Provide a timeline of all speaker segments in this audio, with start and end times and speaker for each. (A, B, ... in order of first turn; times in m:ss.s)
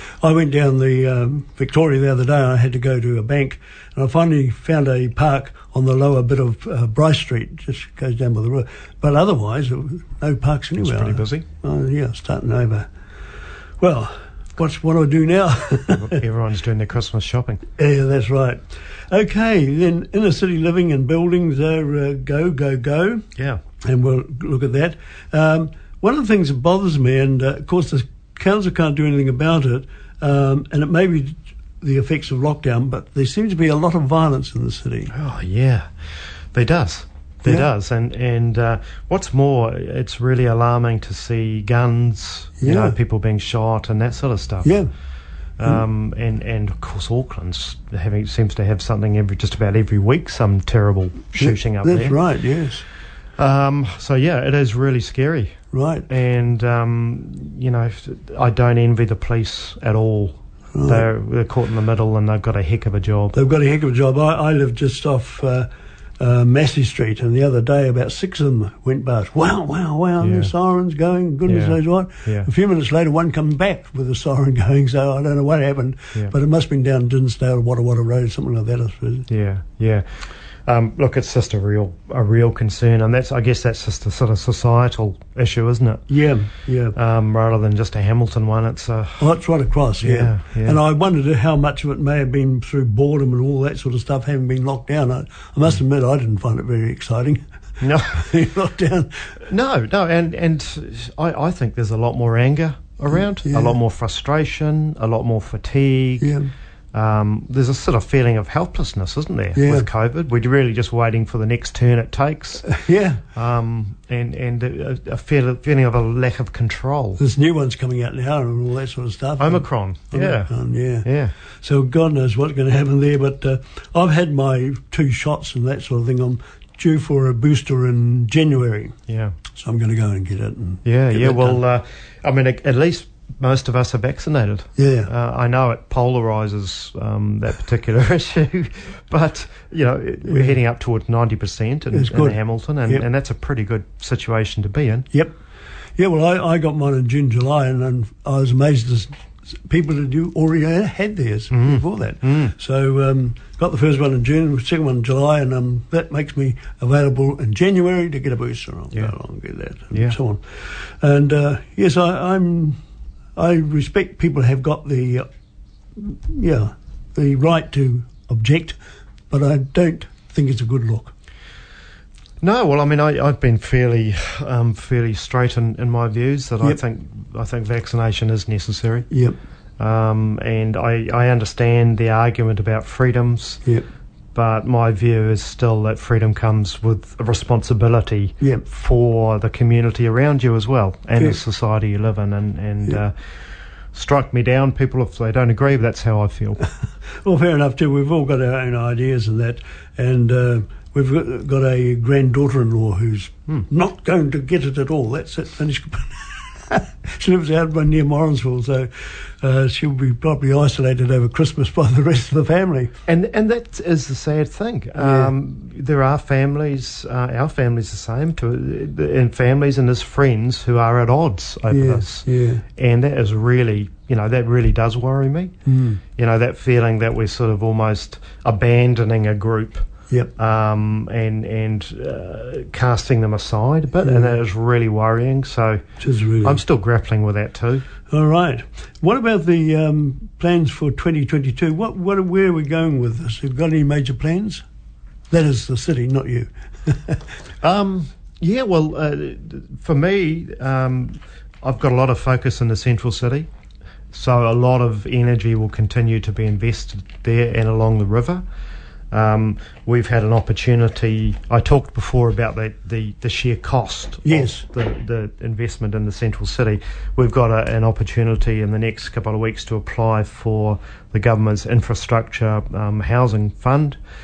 0:00.2-0:12.9 A
0:10.8-0:11.4 B
0:13.8-0:16.2 A
0:16.0-0:17.6 B
0:17.8-0:23.2 A
0:23.8-0:35.1 A
0:35.1-0:35.9 B
0:36.5-0:44.7 B
0:42.6-0:43.0 A
0:44.6-0:44.9 A
0:45.6-0:52.2 B
0:51.4-0:52.8 A
0:53.4-1:03.4 B
0:55.7-0:56.1 A
1:00.7-1:01.1 A
1:03.3-1:05.7 A
1:06.2-1:19.3 A
1:10.2-1:10.5 B
1:11.4-1:12.5 B
1:19.3-1:20.1 B
1:20.6-1:26.1 B
1:26.1-1:27.0 A
1:26.9-1:29.3 B
1:29.2-1:37.4 A
1:30.0-1:30.8 B
1:37.8-1:38.2 B
1:38.1-1:39.3 A
1:39.5-1:46.4 B
1:43.4-1:43.7 A
1:46.2-1:46.5 A
1:46.9-1:52.7 B
1:49.5-1:49.9 A
1:52.7-1:53.2 A
1:53.3-1:57.2 B
1:57.2-2:01.1 A
1:59.4-2:01.3 B
2:01.6-2:09.0 A
2:09.1-2:09.3 B
2:09.5-2:11.6 A
2:10.8-2:25.1 B
2:14.8-2:15.1 A
2:20.3-2:20.5 A
2:21.9-2:23.0 A
2:26.0-2:29.1 A
2:29.6-2:42.8 A
2:31.5-2:32.5 B
2:43.3-2:45.3 A
2:46.0-2:48.8 A
2:49.3-2:51.1 A
2:52.4-2:59.1 B
2:59.1-2:59.4 A
2:59.8-3:03.6 B
3:04.3-3:13.1 B
3:13.9-3:16.7 B
3:17.2-3:32.9 A
3:33.1-3:45.5 B
3:35.0-3:35.3 A
3:41.7-3:42.6 A
3:45.6-3:46.0 A
3:46.2-3:49.8 B
3:50.4-3:55.8 B
3:56.0-3:56.6 A
3:56.4-3:57.8 B
3:58.1-4:04.6 A
4:05.3-4:07.2 A
4:07.6-4:13.5 B
4:14.1-4:18.4 B
4:19.1-4:34.0 B
4:24.2-4:24.6 A